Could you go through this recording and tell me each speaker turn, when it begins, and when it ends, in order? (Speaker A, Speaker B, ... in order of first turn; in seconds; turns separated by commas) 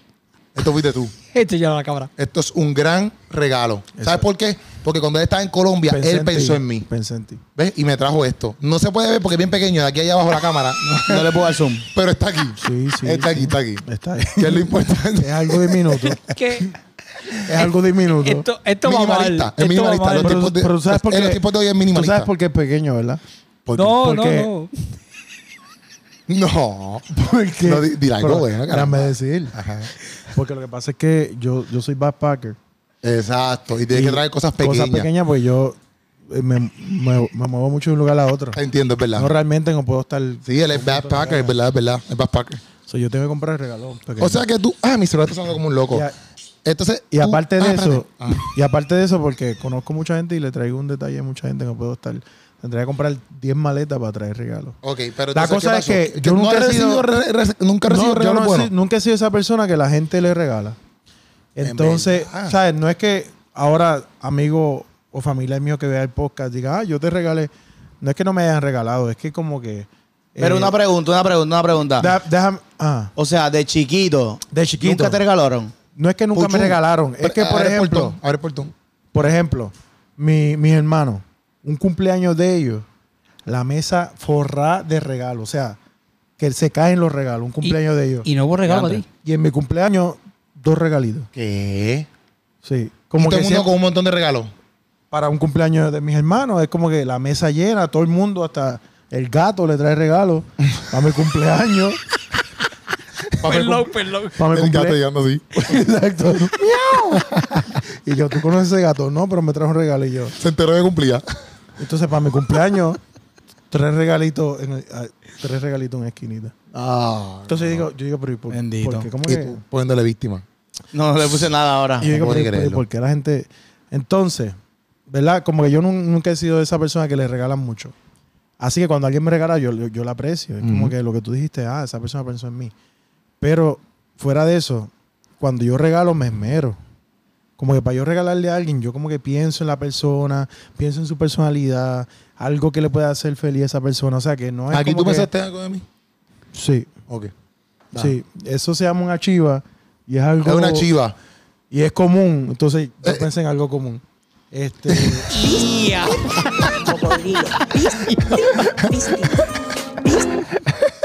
Speaker A: 0.5-1.1, Speaker B: 1.3-2.1, Speaker A: 2.2-6.9, Speaker C: 4.0-4.2, Speaker C: 5.9-7.4, Speaker A: 7.5-16.1, Speaker D: 11.0-11.9, Speaker C: 12.6-16.2, Speaker B: 16.3-16.7, Speaker C: 17.4-18.5, Speaker B: 18.2-20.4, Speaker A: 18.8-22.3, Speaker C: 20.2-23.2, Speaker A: 23.6-24.0, Speaker B: 23.8-24.9, Speaker C: 24.0-24.5, Speaker A: 26.3-27.1, Speaker C: 27.1-29.6, Speaker A: 27.6-29.9, Speaker C: 30.3-32.6, Speaker A: 33.0-35.1, Speaker C: 33.9-35.8, Speaker C: 36.3-38.6, Speaker A: 38.5-39.3, Speaker C: 39.1-41.5, Speaker A: 40.5-42.6, Speaker C: 42.9-44.4, Speaker A: 44.2-46.0, Speaker A: 46.6-48.4, Speaker C: 47.1-54.8, Speaker A: 54.8-58.7, Speaker C: 55.3-57.0, Speaker C: 57.9-60.8, Speaker C: 61.5-70.8, Speaker A: 61.6-62.5, Speaker D: 70.4-72.1, Speaker C: 72.0-73.1, Speaker D: 73.2-75.7, Speaker C: 74.5-75.2, Speaker C: 76.0-78.2, Speaker A: 76.3-78.7, Speaker C: 79.1-82.9, Speaker C: 83.5-85.8, Speaker C: 86.4-88.3, Speaker B: 87.6-89.0, Speaker A: 88.7-89.0, Speaker C: 89.0-91.3, Speaker A: 91.3-92.1, Speaker C: 92.6-93.7, Speaker A: 93.2-94.5, Speaker C: 95.1-102.0, Speaker B: 103.4-104.4, Speaker C: 103.4-105.0, Speaker A: 104.5-105.5, Speaker C: 105.5-106.6, Speaker A: 107.1-107.7, Speaker C: 107.9-110.4, Speaker A: 110.4-111.2, Speaker C: 111.8-113.0, Speaker C: 113.7-116.5, Speaker A: 116.7-117.9, Speaker C: 117.5-119.6, Speaker D: 118.5-119.1, Speaker A: 119.2-120.5, Speaker D: 120.9-122.2, Speaker C: 122.0-124.5, Speaker A: 122.1-122.8, Speaker C: 125.1-127.9, Speaker C: 128.6-132.7, Speaker A: 130.6-130.9, Speaker C: 133.4-136.8, Speaker C: 137.6-145.3, Speaker A: 144.7-145.8, Speaker C: 146.5-146.9, Speaker A: 147.1-147.3, Speaker C: 148.0-150.9, Speaker A: 150.4-151.1, Speaker C: 151.7-155.3, Speaker A: 154.9-155.2, Speaker B: 155.3-156.8, Speaker E: 155.4-155.7, Speaker E: 156.3-159.4, Speaker B: 157.9-158.7, Speaker E: 160.0-160.4